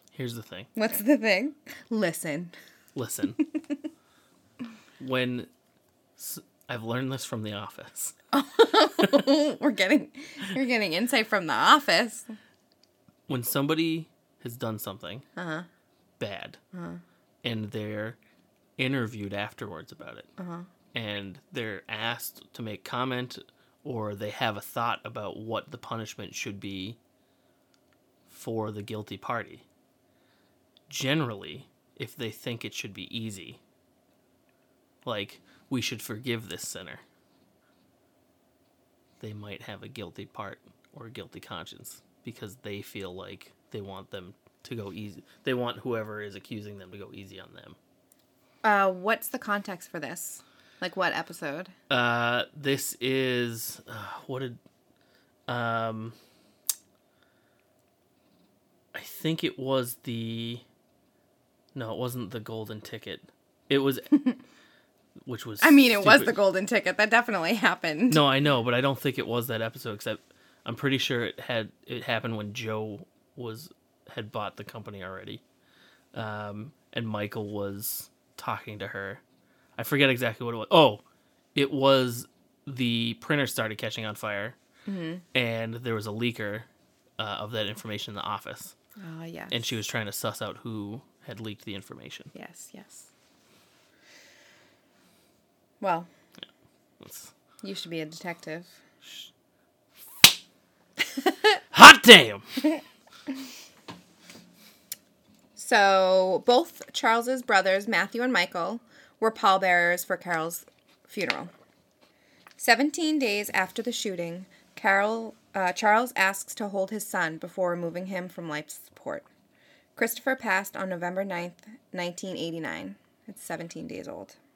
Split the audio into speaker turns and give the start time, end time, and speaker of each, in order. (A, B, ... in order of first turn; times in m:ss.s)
0:00.1-0:00.7 A
0:00.8-0:02.5 B
0:03.0-0:03.4 A
0:03.4-0:03.8 B
0:05.0-0:05.5 A
0:06.2-0:08.2 A
0:08.3-0:12.3 B
0:09.0-0:09.2 A
0:13.3-0:15.2 A
0:15.4-0:15.7 B
0:16.2-0:16.6 A
0:16.7-0:17.0 B
0:17.4-0:18.2 A
0:18.8-0:20.3 A
0:20.4-0:20.7 B
0:20.9-0:27.0 A
0:28.3-0:29.6 A
0:30.9-0:33.6 A
0:35.0-0:37.0 A
0:39.2-0:47.8 A
0:48.6-0:51.7 B
0:51.9-0:54.6 A
0:55.5-0:56.2 A
0:58.9-1:00.6 A
1:01.8-1:04.1 A
1:04.1-1:04.4 B
1:05.2-1:06.4 A
1:05.6-1:08.2 B
1:08.1-1:15.4 A
1:16.1-1:19.2 A
1:19.8-1:21.0 A
1:21.6-1:24.6 A
1:24.9-1:25.2 B
1:25.3-1:26.7 A
1:27.2-1:28.8 A
1:29.0-1:29.8 B
1:29.5-1:32.3 A
1:32.3-1:33.1 B
1:35.8-1:36.1 B
1:37.0-1:37.3 A
1:37.6-1:38.8 B
1:39.0-1:39.3 A
1:41.7-1:42.4 A
1:45.6-1:51.5 B
1:52.6-1:59.3 B
2:00.0-2:04.4 B